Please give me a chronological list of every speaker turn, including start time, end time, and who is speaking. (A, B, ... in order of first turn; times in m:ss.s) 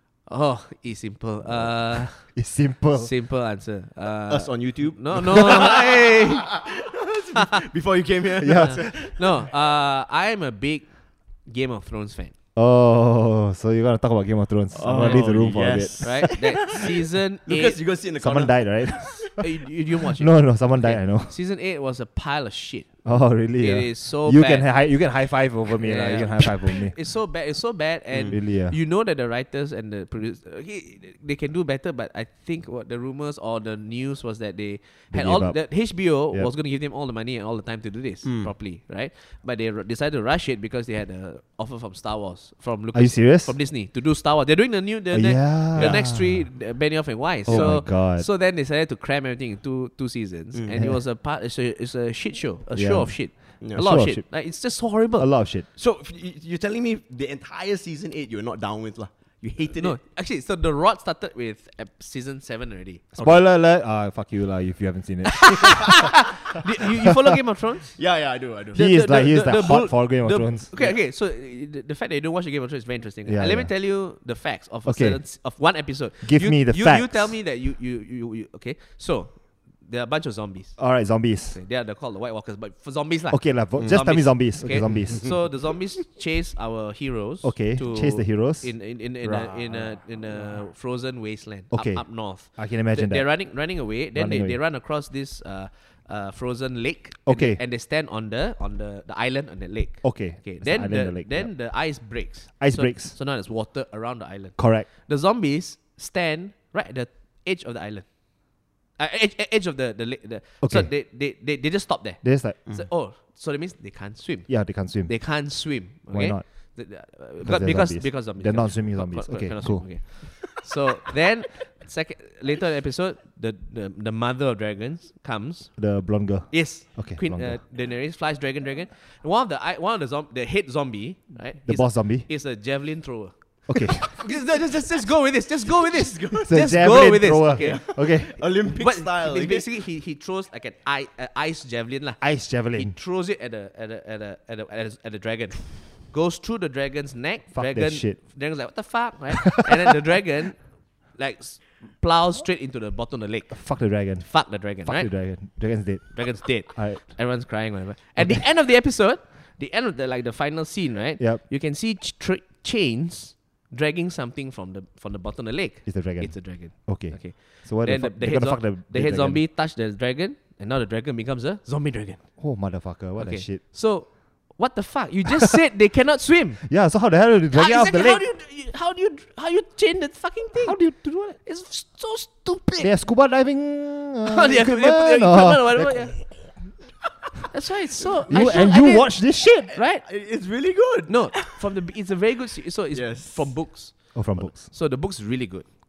0:00.2-0:06.7 A
0:01.4-0:03.1 B
0:04.3-0:09.5 C
0:08.4-0:08.9 B
0:08.6-0:12.3 A
0:12.5-0:16.5 B
0:14.7-0:19.4 C
0:14.9-0:15.3 A
0:16.0-0:17.8 A
0:18.2-0:19.4 B
0:19.4-0:24.7 A
0:20.2-0:21.3 B
0:23.0-0:27.0 B
0:25.8-0:55.3 A
0:28.3-0:28.8 B
0:35.1-0:36.5 B
0:38.2-0:38.5 C
0:42.9-0:43.6 B
0:45.1-0:46.6 B
0:45.7-0:46.1 C
0:47.4-0:48.3 B
0:47.5-0:47.8 C
0:50.5-0:50.8 C
0:50.7-0:51.0 B
0:52.7-0:55.7 B
0:53.6-0:53.9 C
0:55.7-1:00.0 C
0:59.8-1:03.1 A
1:03.1-1:06.2 B
1:05.5-1:08.1 A
1:08.0-1:09.0 C
1:08.7-1:10.7 B
1:08.8-2:57.0 A
1:10.7-1:11.0 C
1:13.2-1:13.8 B
1:14.8-1:17.4 B
1:20.8-1:21.6 B
1:23.3-1:25.5 B
1:23.8-1:24.1 C
1:24.8-1:25.4 C
1:27.4-1:29.5 B
1:31.7-1:34.6 B
1:37.2-1:37.6 B
1:40.0-1:43.2 B
1:44.6-1:44.9 B
1:50.6-1:51.0 B
1:52.2-1:52.6 B
1:54.5-2:00.3 B
2:05.8-2:07.6 B
2:11.6-2:12.8 B
2:13.7-2:14.2 B
2:15.8-2:19.7 C
2:16.5-2:18.6 B
2:22.2-2:23.0 B
2:27.5-2:28.9 B
2:33.5-2:38.4 B
2:41.2-2:41.4 B
2:45.8-2:49.4 B
2:52.4-2:53.6 B
2:56.7-2:58.3 B
2:57.5-3:03.0 A
3:00.6-3:01.4 B
3:02.8-3:06.4 B
3:04.2-3:06.8 A
3:07.5-3:10.1 A
3:08.3-3:09.8 B
3:08.3-3:08.7 C
3:10.0-3:11.6 C
3:11.1-3:15.6 A
3:12.9-3:14.1 C
3:14.1-3:14.7 B